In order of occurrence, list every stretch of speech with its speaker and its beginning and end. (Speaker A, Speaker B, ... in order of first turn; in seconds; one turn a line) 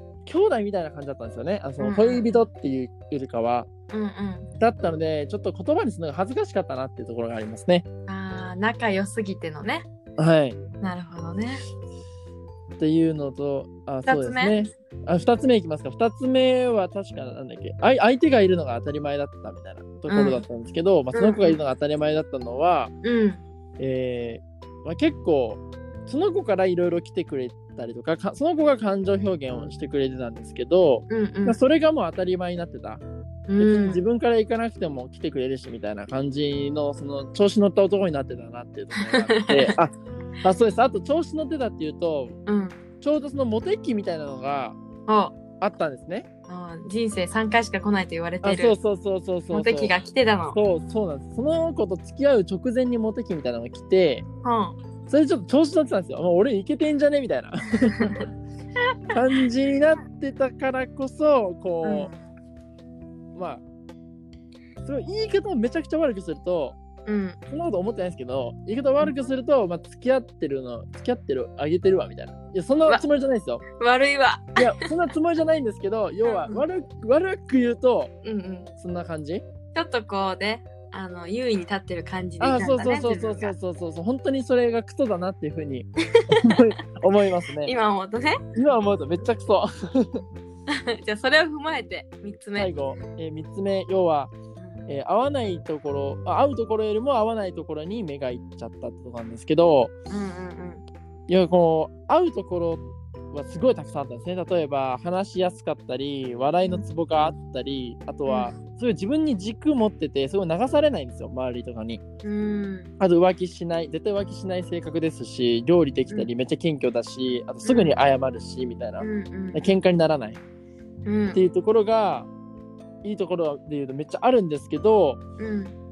Speaker A: 0.3-3.7
Speaker B: 1.8-2.3
Speaker B: 3.9-4.5
Speaker A: 4.6-7.8
Speaker B: 8.1-9.9
Speaker A: 10.2-10.6
Speaker B: 10.8-11.6
Speaker A: 12.8-22.9
Speaker B: 14.1-14.6
Speaker B: 20.1-20.4
Speaker B: 21.1-21.6
Speaker B: 23.0-23.4
Speaker A: 23.8-33.0
Speaker B: 31.1-31.6
Speaker B: 33.5-34.0
Speaker A: 33.6-42.4
Speaker B: 38.9-39.8
Speaker B: 42.5-42.8
Speaker A: 43.0-44.8
Speaker B: 45.1-45.4
Speaker A: 45.6-46.3
Speaker B: 46.5-48.8
Speaker A: 48.4-50.0
Speaker B: 49.5-50.6
Speaker A: 50.5-54.2
Speaker B: 54.4-54.8
Speaker A: 55.1-58.3
Speaker A: 59.1-62.1
Speaker B: 61.8-62.1
Speaker A: 63.4-63.6
Speaker A: 64.8-66.8
Speaker B: 67.1-67.4
Speaker A: 67.5-73.6
Speaker B: 73.8-74.9
Speaker A: 74.6-78.1
Speaker B: 76.2-76.6
Speaker B: 78.2-78.7
Speaker A: 78.8-79.4
Speaker B: 79.7-83.5
Speaker A: 82.4-87.7
Speaker B: 86.2-86.6
Speaker B: 87.6-88.4
Speaker A: 88.5-90.2
Speaker B: 90.7-92.8
Speaker A: 92.6-94.3
Speaker A: 94.9-99.9
Speaker B: 100.1-100.8
Speaker A: 101.3-112.0
Speaker B: 108.3-108.5
Speaker B: 112.2-112.9
Speaker A: 113.0-120.4
Speaker B: 117.7-118.0
Speaker B: 119.0-119.8
Speaker B: 121.1-121.4
Speaker A: 121.3-122.3
Speaker A: 123.0-125.2
Speaker B: 125.4-125.8